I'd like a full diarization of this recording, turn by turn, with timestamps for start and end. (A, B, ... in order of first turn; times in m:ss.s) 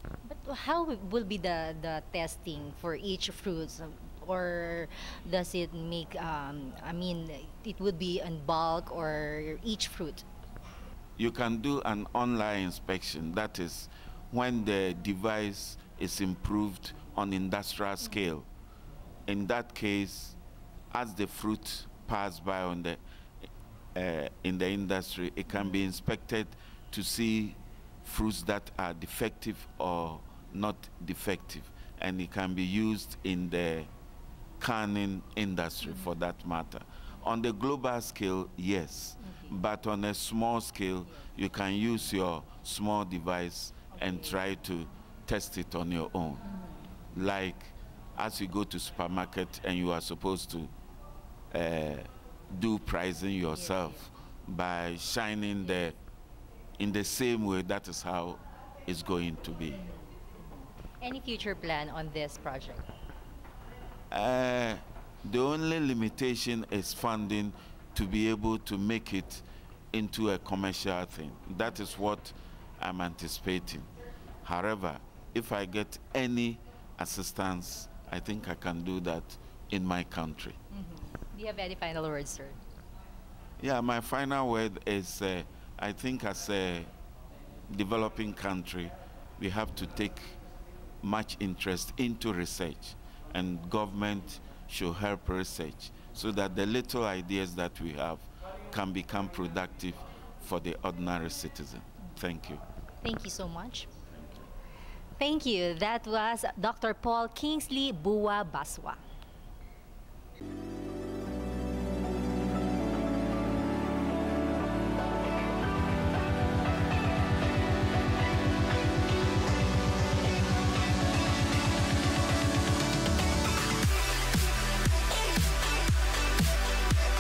0:00.2-0:10.3 A
0:11.2-0:18.5 B
0:19.3-0:20.4 B
0:20.9-0:23.0 B
0:23.9-0:33.9 B
0:34.6-0:46.5 B
0:47.1-0:50.7 B
0:51.5-0:56.0 B
0:56.8-0:59.8 B
0:59.7-1:00.0 A
1:01.0-1:02.9 A
1:04.1-1:13.9 B
1:14.4-1:20.6 B
1:20.7-1:22.6 A
1:23.6-1:26.9 B
1:27.7-1:30.4 B
1:31.0-1:42.6 B
1:43.0-1:43.9 A
1:45.2-1:49.0 A